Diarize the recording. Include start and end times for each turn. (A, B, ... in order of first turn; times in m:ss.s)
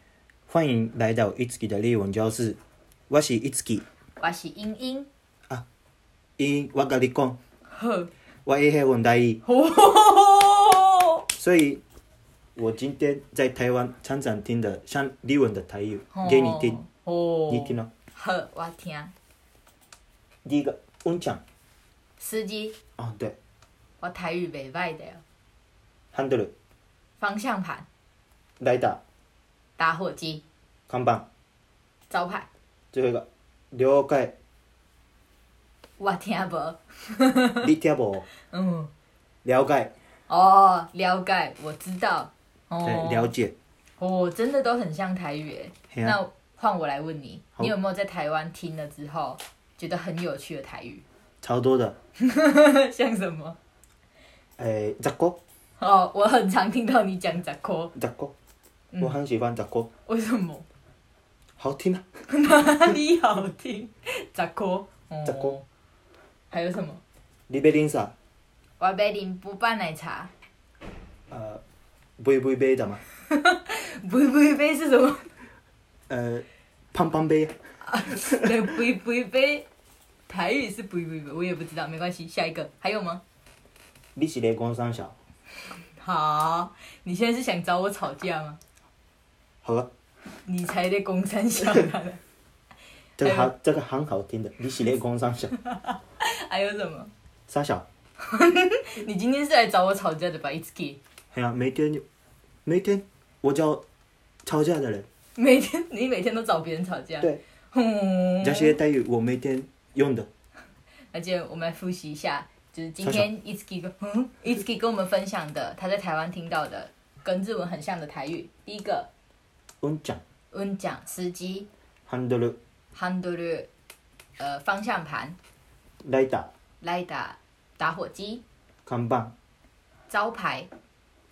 0:00.5-0:02.6 A
0:03.1-0:03.8 A
0:04.2-0:05.1 B
0:06.4-0:07.4 A
0:07.7-0:08.1 B
0:08.4-0:09.4 A
0:09.4-0:11.2 B
0:11.3-0:11.8 A
0:12.6-0:16.8 A
0:16.1-0:19.1 B
0:17.5-0:17.9 A
0:20.4-0:21.4 A
0:22.2-0:22.8 B
0:23.0-0:23.4 A
0:24.0-0:25.2 B
0:26.1-0:26.5 A
0:27.2-0:27.8 B
0:28.6-0:29.0 A
0:29.8-0:30.4 B
0:30.9-0:31.2 A
0:32.1-0:32.5 B
0:32.9-0:34.3 A
0:36.0-0:37.7 B
0:37.6-0:38.2 A
0:38.2-0:38.9 B
0:39.4-0:39.9 A
0:40.3-0:43.3 B
0:42.8-0:43.5 A
0:44.0-0:51.0 B
0:51.4-0:52.0 A
0:52.2-0:53.6 B
0:54.6-0:55.4 A
0:55.8-0:57.9 B
0:57.9-0:58.3 A
0:59.0-0:59.9 A
1:00.1-1:00.6 B
1:01.6-1:02.2 A
1:02.3-1:05.6 B
1:05.2-1:05.6 A
1:06.5-1:07.0 B
1:07.5-1:08.1 A
1:08.8-1:10.3 B
1:11.3-1:11.6 A
1:12.2-1:13.0 A
1:13.2-1:15.3 B
1:16.1-1:17.7 A
1:17.8-1:19.6 B
1:20.3-1:23.2 B
1:24.2-1:25.1 A
1:25.7-1:28.6 B
1:29.6-1:29.9 A
1:30.4-1:32.2 B
1:33.2-1:35.5 A
1:33.2-1:33.5 B
1:35.5-1:37.1 B
1:37.5-1:37.8 A
1:38.2-1:41.0 B
1:41.3-1:42.0 A
1:42.6-1:43.8 A
1:44.4-1:45.0 A
1:45.4-1:48.8 B
1:48.4-1:50.3 A
1:51.1-1:59.1 B
1:59.8-2:00.2 A
2:00.5-2:01.7 B
2:02.1-2:02.6 A
2:02.9-2:03.7 B
2:04.4-2:05.4 B
2:06.0-2:06.5 A
2:06.8-2:08.4 B
2:08.8-2:09.3 A
2:10.1-2:10.7 B